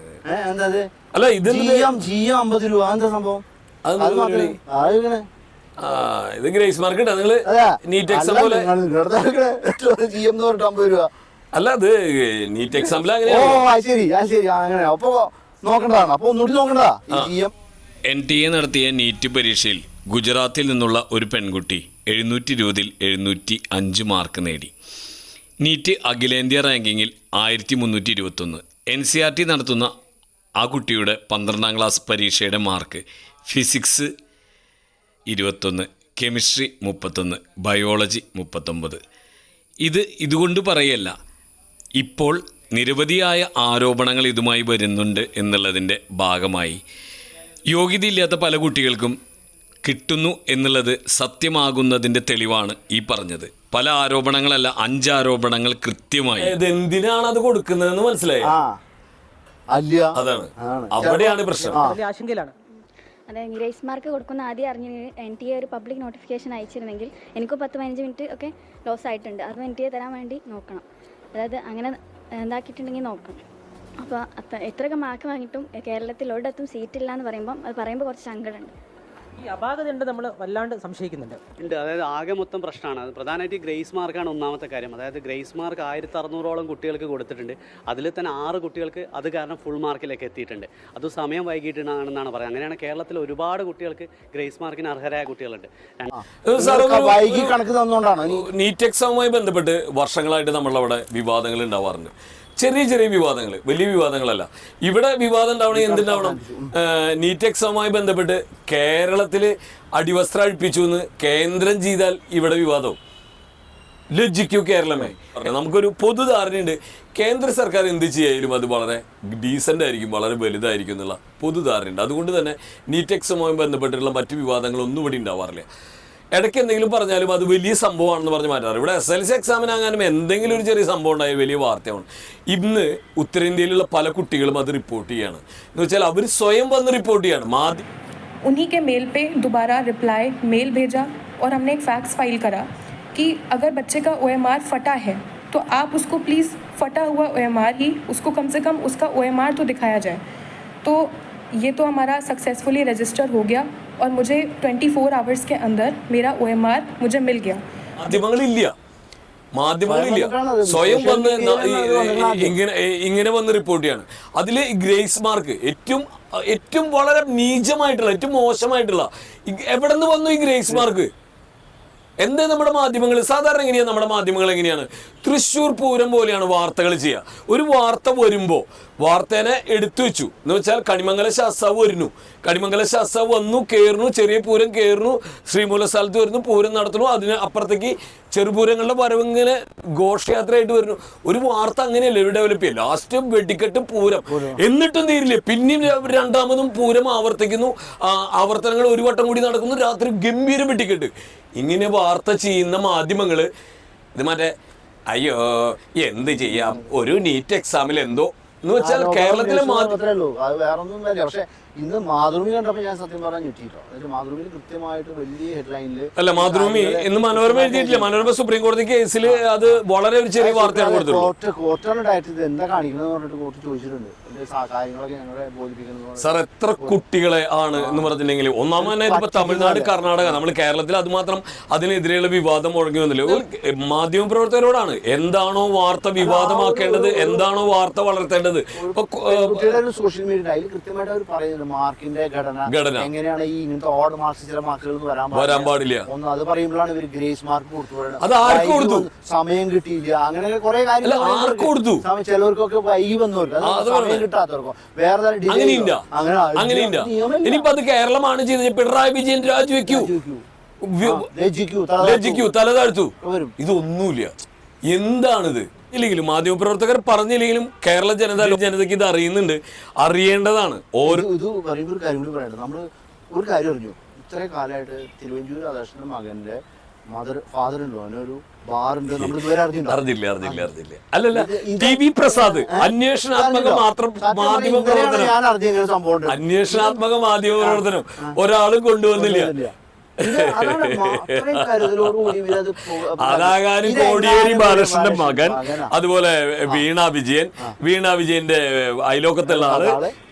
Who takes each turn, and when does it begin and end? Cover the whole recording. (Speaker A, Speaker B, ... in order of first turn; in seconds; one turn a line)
Speaker A: 0.3-0.9
Speaker B: 1.1-2.0
Speaker A: 1.4-3.4
Speaker B: 3.9-4.6
Speaker A: 4.0-5.2
Speaker B: 5.8-8.7
Speaker A: 7.4-11.1
Speaker B: 11.5-13.7
Speaker A: 12.7-17.5
Speaker B: 18.1-24.7
Speaker B: 25.6-29.9
Speaker B: 30.6-34.1
Speaker B: 35.3-39.0
Speaker B: 39.8-41.1
Speaker B: 42.0-46.8
Speaker B: 47.7-49.2
Speaker B: 49.8-58.5
Speaker A: 58.4-58.8
Speaker A: 59.7-62.0
Speaker B: 60.1-61.8
Speaker C: 61.7-62.5
Speaker D: 63.3-70.8
Speaker D: 71.3-73.4
Speaker D: 74.0-78.7
Speaker C: 79.4-81.4
Speaker E: 81.6-96.1
Speaker A: 96.1-98.5
Speaker B: 96.4-97.5
Speaker B: 98.2-113.0
Speaker A: 105.7-106.7
Speaker B: 114.1-125.7
Speaker B: 126.3-137.8
Speaker F: 138.4-150.2
Speaker F: 150.8-158.2
Speaker B: 158.0-158.7
Speaker B: 159.5-171.1
Speaker A: 159.8-162.6
Speaker B: 172.2-203.5
Speaker A: 194.3-194.6
Speaker B: 204.1-204.5
Speaker B: 205.1-210.0
Speaker A: 206.5-206.9
Speaker A: 208.8-218.3
Speaker B: 216.2-221.3
Speaker A: 219.2-219.8
Speaker A: 220.4-227.0
Speaker B: 226.2-239.8
Speaker A: 227.7-228.1
Speaker A: 228.8-230.4
Speaker A: 236.2-237.5
Speaker A: 238.7-257.7
Speaker B: 242.7-243.1
Speaker B: 245.3-246.1
Speaker B: 248.2-249.1
Speaker B: 251.0-252.0
Speaker B: 253.6-254.2
Speaker B: 255.5-256.0
Speaker B: 256.6-260.1
Speaker A: 259.8-260.4
Speaker B: 260.8-261.2
Speaker A: 261.0-262.5
Speaker B: 262.0-264.3
Speaker A: 263.2-263.5
Speaker B: 264.9-271.3
Speaker A: 271.0-280.7
Speaker B: 279.1-285.3
Speaker A: 281.3-287.0
Speaker B: 286.3-289.6
Speaker A: 287.6-288.3
Speaker A: 289.1-295.9
Speaker B: 290.2-300.0
Speaker A: 299.4-300.1